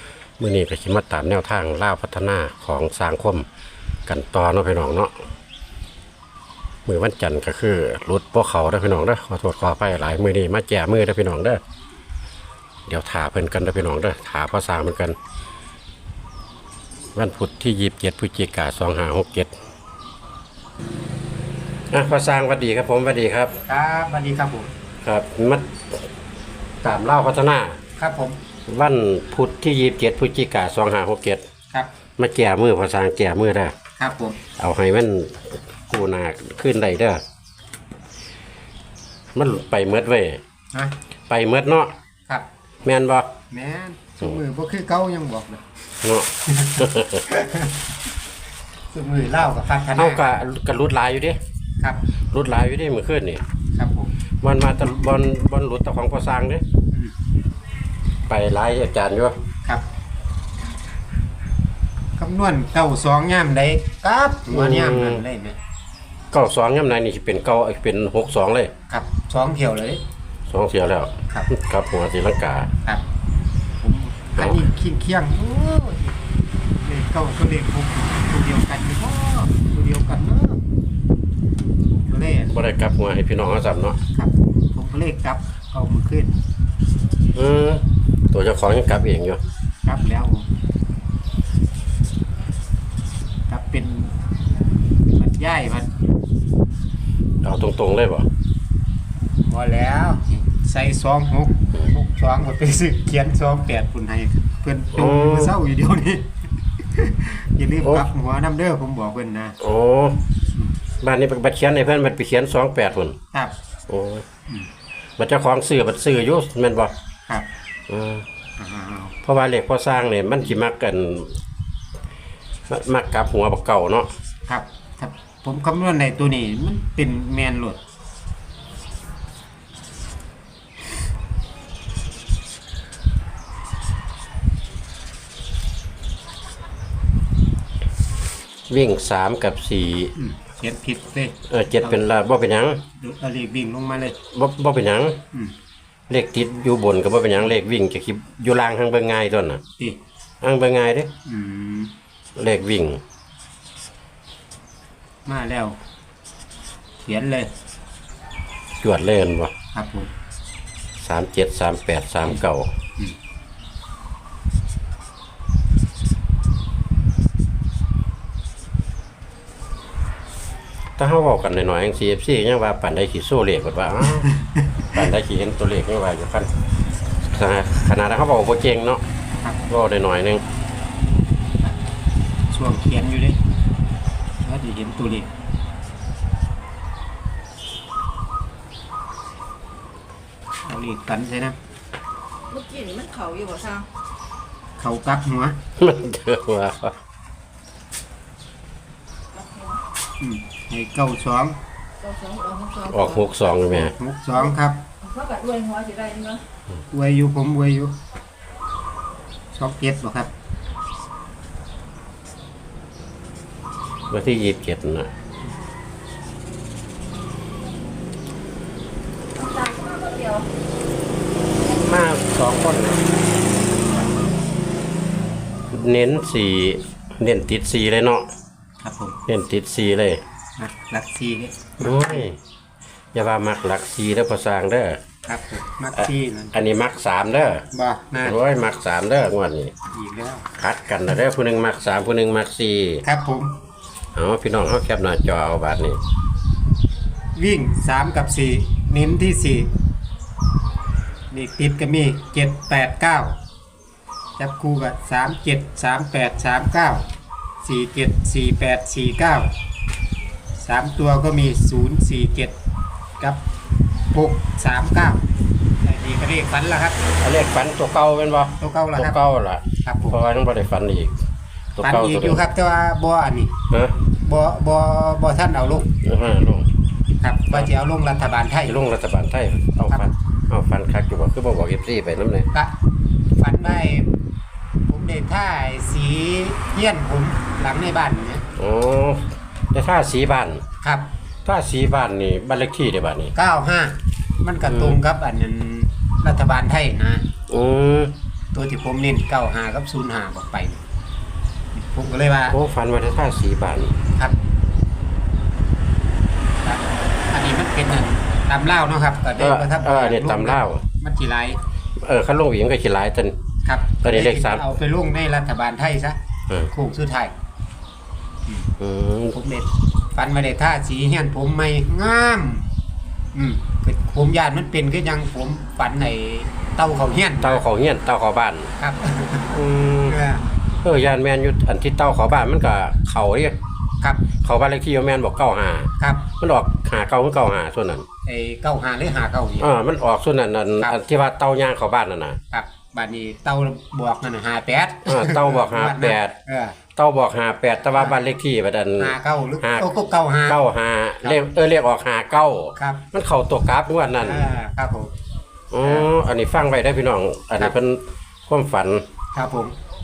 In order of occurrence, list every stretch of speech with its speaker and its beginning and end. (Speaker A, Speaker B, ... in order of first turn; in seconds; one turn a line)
Speaker A: 0.4-3.5
Speaker A: 4.1-5.1
Speaker A: 6.9-11.6
Speaker A: 12.9-15.2
Speaker A: 17.1-19.5
Speaker A: 21.9-23.6
Speaker B: 23.7-24.7
Speaker A: 25.0-26.0
Speaker A: 26.8-27.8
Speaker B: 28.0-28.4
Speaker A: 28.7-31.4
Speaker A: 32.2-33.8
Speaker B: 34.0-34.4
Speaker A: 34.6-37.2
Speaker A: 39.4-40.4
Speaker A: 41.3-41.9
Speaker A: 42.8-43.3
Speaker B: 43.5-45.6
Speaker A: 46.0-47.2
Speaker B: 46.5-47.9
Speaker B: 48.9-50.2
Speaker A: 50.0-51.4
Speaker A: 52.3-53.4
Speaker B: 53.7-54.1
Speaker A: 54.4-56.6
Speaker A: 58.3-59.4
Speaker B: 62.2-65.6
Speaker A: 64.5-65.2
Speaker A: 66.3-68.7
Speaker B: 68.9-70.0
Speaker A: 70.5-72.7
Speaker B: 73.8-76.2
Speaker A: 74.4-74.7
Speaker B: 76.8-80.6
Speaker B: 81.9-82.5
Speaker A: 82.5-84.0
Speaker B: 84.1-86.4
Speaker A: 87.3-89.4
Speaker B: 89.8-90.5
Speaker B: 93.5-94.2
Speaker B: 95.2-95.9
Speaker A: 97.4-98.3
Speaker B: 99.4-106.3
Speaker A: 105.0-105.5
Speaker B: 106.9-109.6
Speaker A: 109.6-110.3
Speaker A: 111.0-113.2
Speaker A: 113.9-114.2
Speaker A: 115.2-116.9
Speaker A: 117.9-118.2
Speaker B: 118.6-119.1
Speaker A: 119.2-121.4
Speaker A: 122.7-124.1
Speaker B: 124.5-127.8
Speaker A: 138.7-140.1
Speaker B: 140.2-142.0
Speaker A: 141.5-142.8
Speaker B: 143.0-144.2
Speaker A: 144.3-145.2
Speaker A: 146.1-149.6
Speaker A: 150.4-151.1
Speaker B: 151.2-151.9
Speaker A: 152.4-153.0
Speaker B: 155.3-155.8
Speaker B: 157.0-157.5
Speaker A: 158.8-159.5
Speaker B: 159.7-160.1
Speaker A: 161.0-162.7
Speaker A: 171.0-174.3
Speaker B: 174.4-174.8
Speaker A: 174.9-176.5
Speaker A: 177.2-179.0
Speaker A: 179.7-180.4
Speaker B: 182.5-183.4
Speaker B: 184.4-185.3
Speaker B: 190.6-191.6
Speaker C: 192.5-193.9
Speaker B: 194.8-195.6
Speaker A: 195.8-197.0
Speaker B: 200.2-201.6
Speaker C: 202.0-203.0
Speaker A: 202.8-203.9
Speaker B: 203.7-204.8
Speaker C: 205.1-206.4
Speaker B: 206.9-208.0
Speaker B: 209.6-210.3
Speaker A: 214.1-215.1
Speaker C: 219.4-220.5
Speaker A: 221.6-223.2
Speaker A: 225.7-228.3
Speaker B: 228.8-229.2
Speaker A: 229.3-230.2
Speaker B: 230.6-232.3
Speaker A: 231.8-232.4
Speaker A: 233.1-235.0
Speaker B: 235.3-236.5
Speaker A: 236.0-237.7
Speaker B: 237.7-238.4
Speaker A: 238.2-239.7
Speaker B: 239.9-240.5
Speaker A: 240.6-243.0
Speaker B: 243.0-243.6
Speaker A: 244.2-246.0
Speaker B: 247.4-249.7
Speaker B: 251.3-253.4
Speaker B: 254.4-257.1
Speaker B: 257.6-259.5
Speaker B: 260.6-262.6
Speaker B: 264.1-265.3
Speaker B: 265.8-267.0
Speaker A: 267.2-271.1
Speaker B: 268.6-269.2
Speaker B: 269.8-270.2
Speaker A: 271.8-272.4
Speaker B: 271.8-273.5
Speaker A: 273.7-274.0
Speaker B: 274.2-275.9
Speaker A: 276.0-276.7
Speaker B: 277.2-278.8
Speaker A: 278.7-282.5
Speaker B: 283.4-284.1
Speaker B: 284.9-288.4
Speaker A: 288.6-290.6
Speaker B: 290.8-291.1
Speaker A: 291.4-293.3
Speaker B: 293.4-297.2
Speaker A: 294.7-295.0
Speaker A: 297.5-298.1
Speaker B: 298.5-300.8
Speaker B: 301.8-302.6
Speaker A: 302.5-304.0
Speaker B: 306.6-311.6
Speaker A: 309.4-310.8
Speaker A: 312.0-313.4
Speaker B: 313.6-316.2
Speaker A: 314.0-314.7
Speaker B: 316.7-317.3
Speaker A: 318.8-319.4
Speaker B: 319.3-322.7
Speaker B: 323.3-327.6
Speaker A: 327.4-328.7
Speaker B: 328.8-330.5
Speaker A: 329.5-330.2
Speaker A: 330.8-333.6
Speaker A: 334.4-338.1
Speaker B: 336.0-336.3
Speaker B: 338.2-339.7
Speaker A: 339.6-342.4
Speaker B: 342.5-346.8
Speaker A: 345.1-346.4
Speaker A: 347.0-349.9
Speaker B: 349.0-350.6
Speaker A: 350.5-354.5
Speaker B: 352.8-353.0
Speaker B: 354.2-355.1
Speaker A: 355.7-359.1
Speaker B: 359.3-359.7